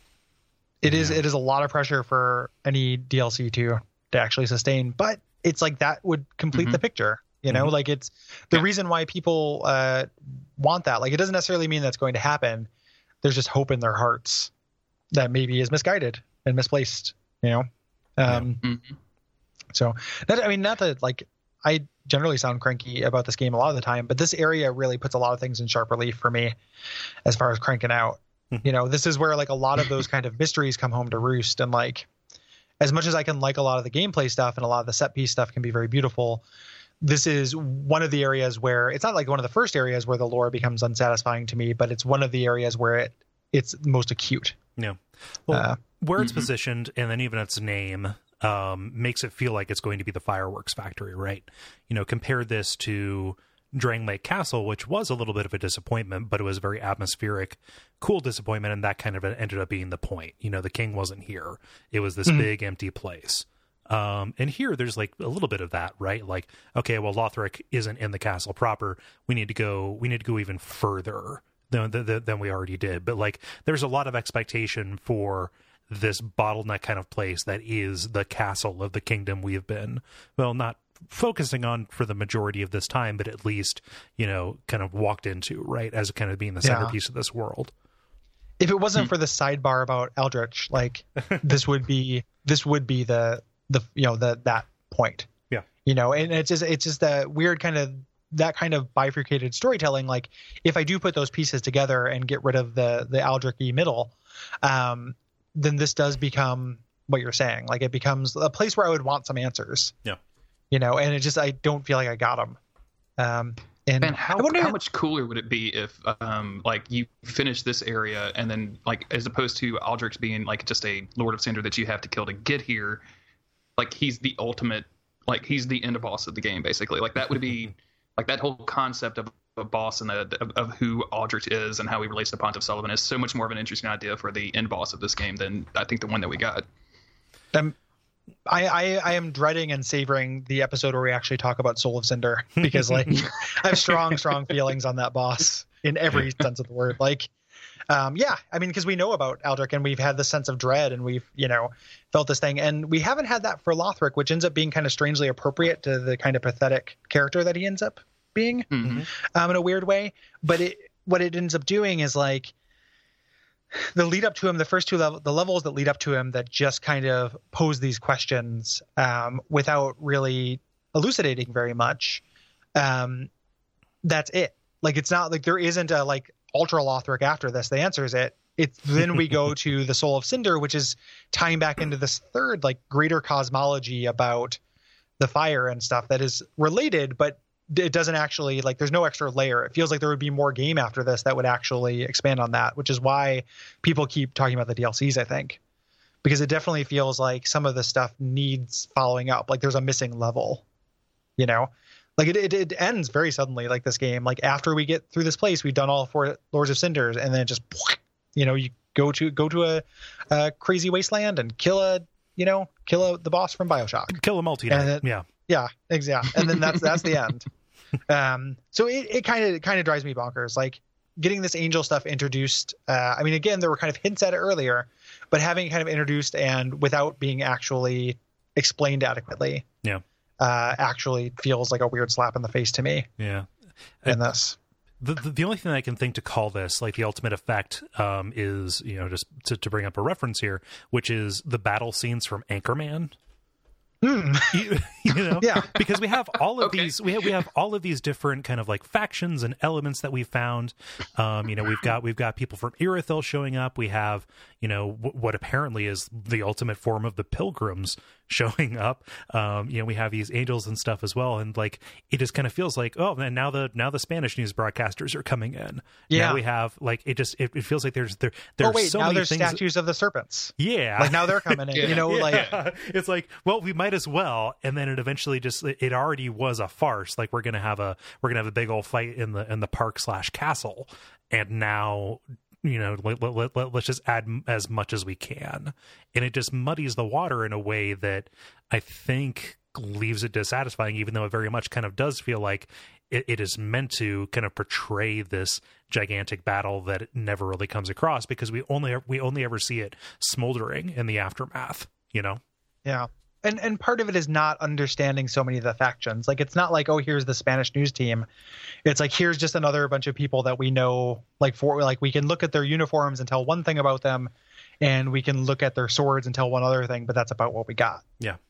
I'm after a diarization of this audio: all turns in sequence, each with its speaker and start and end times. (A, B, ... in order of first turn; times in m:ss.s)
0:00.8-0:12.7 A
0:00.9-0:01.2 B
0:06.5-0:06.8 C
0:13.2-0:14.5 A
0:15.1-0:18.6 A
0:18.6-0:18.9 C
0:19.7-0:26.6 A
0:27.2-0:32.1 A
0:32.8-0:36.4 A
0:37.0-0:44.6 A
0:44.8-1:27.7 B
0:45.5-0:45.8 A
0:46.2-0:46.5 C
1:26.6-1:27.0 A
1:28.6-1:35.3 A
1:35.9-1:50.0 A
1:50.7-1:52.6 A
1:53.2-1:54.8 A
1:54.0-2:03.0 C
2:03.8-2:16.6 C
2:18.5-2:27.3 A
2:22.7-2:23.1 B
2:27.9-2:42.5 A
2:38.7-2:39.1 C
2:43.7-2:52.2 A
2:52.8-2:53.3 A
2:54.0-3:04.6 A
3:05.2-3:15.6 A
3:16.2-3:20.6 A
3:21.4-3:37.5 A
3:34.1-3:35.3 B
3:38.1-3:49.6 A
3:50.4-3:53.1 A
3:53.2-3:53.5 B
3:54.1-3:54.6 A
3:55.0-4:03.2 B
4:04.0-4:04.7 A
4:04.5-4:29.6 B
4:05.4-4:05.7 A
4:06.6-4:07.3 C
4:26.1-4:26.4 A
4:28.6-4:32.5 A
4:30.6-5:02.4 B
4:31.7-4:32.6 C
5:02.8-5:08.3 A
5:08.8-5:18.0 A